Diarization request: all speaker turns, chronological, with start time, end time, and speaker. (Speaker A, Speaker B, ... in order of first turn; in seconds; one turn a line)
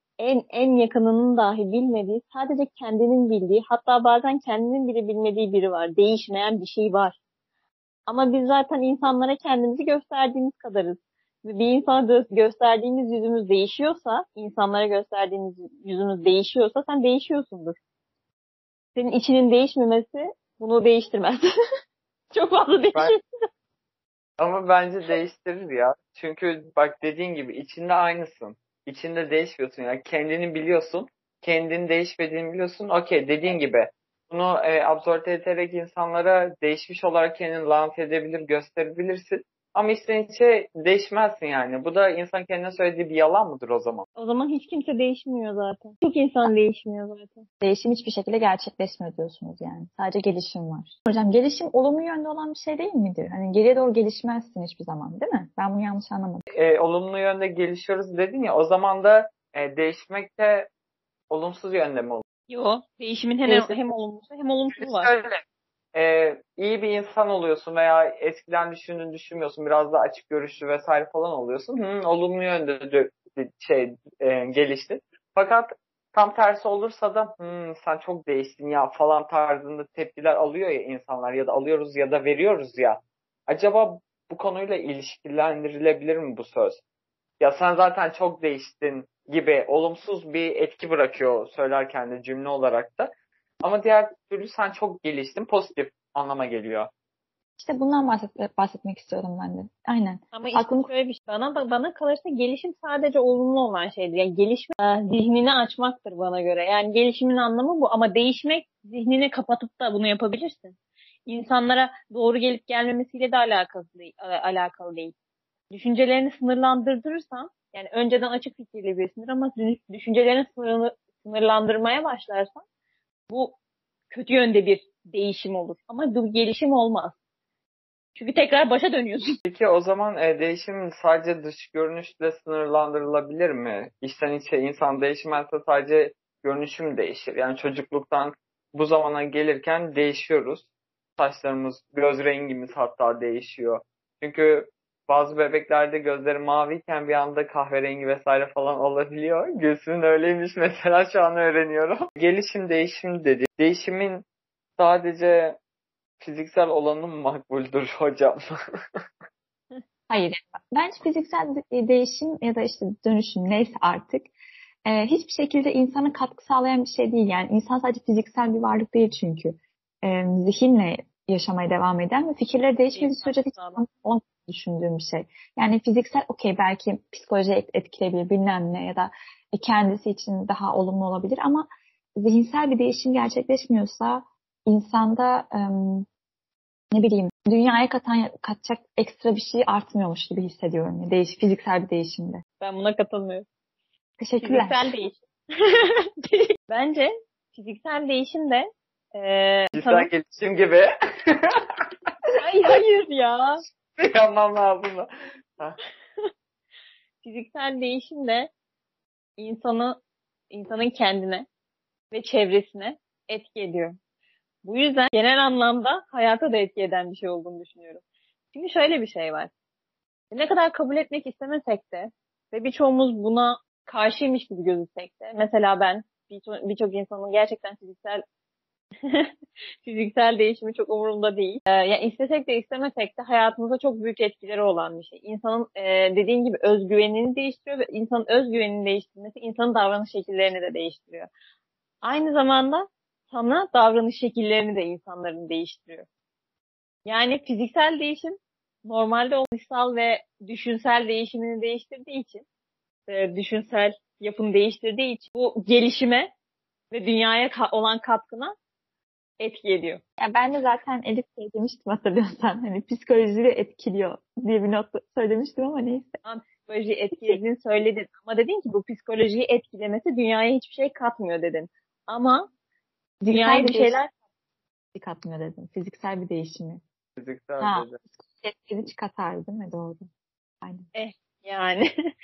Speaker A: 0.2-7.2
Speaker A: 8.1-17.8
Speaker A: 18.9-21.5
Speaker A: 22.3-23.2
Speaker B: 24.4-44.0
Speaker A: 44.2-47.5
Speaker C: 47.6-56.4
Speaker B: 56.5-60.7
Speaker B: 61.3-62.2
Speaker A: 62.5-65.1
Speaker C: 63.5-63.7
Speaker B: 64.8-65.4
Speaker B: 65.9-86.8
Speaker B: 87.4-96.9
Speaker C: 97.6-100.9
Speaker A: 100.3-110.8
Speaker A: 111.3-115.1
Speaker A: 115.7-122.6
Speaker A: 123.3-123.6
Speaker A: 124.1-127.2
Speaker A: 128.2-129.3
Speaker B: 129.4-140.7
Speaker B: 141.2-154.2
Speaker B: 154.8-155.6
Speaker B: 156.2-158.5
Speaker C: 160.1-164.3
Speaker C: 164.8-186.1
Speaker A: 172.9-173.8
Speaker C: 186.9-192.4
Speaker A: 192.6-193.4
Speaker C: 194.2-194.8
Speaker A: 194.4-200.1
Speaker B: 199.7-201.8
Speaker A: 202.3-203.6
Speaker B: 204.0-205.8
Speaker A: 207.2-208.5
Speaker A: 209.4-211.5
Speaker A: 212.1-213.9
Speaker A: 214.6-218.0
Speaker A: 218.5-219.5
Speaker A: 220.3-228.2
Speaker A: 229.0-229.3
Speaker A: 229.8-241.3
Speaker A: 242.0-246.1
Speaker A: 247.1-252.4
Speaker A: 253.1-256.3
Speaker A: 256.9-258.5
Speaker A: 259.4-260.0
Speaker C: 260.2-266.2
Speaker A: 266.2-272.5
Speaker C: 273.2-273.9
Speaker A: 273.3-274.1
Speaker C: 274.9-276.8
Speaker B: 277.2-278.0
Speaker C: 277.6-280.1
Speaker C: 280.6-280.9
Speaker A: 280.9-281.9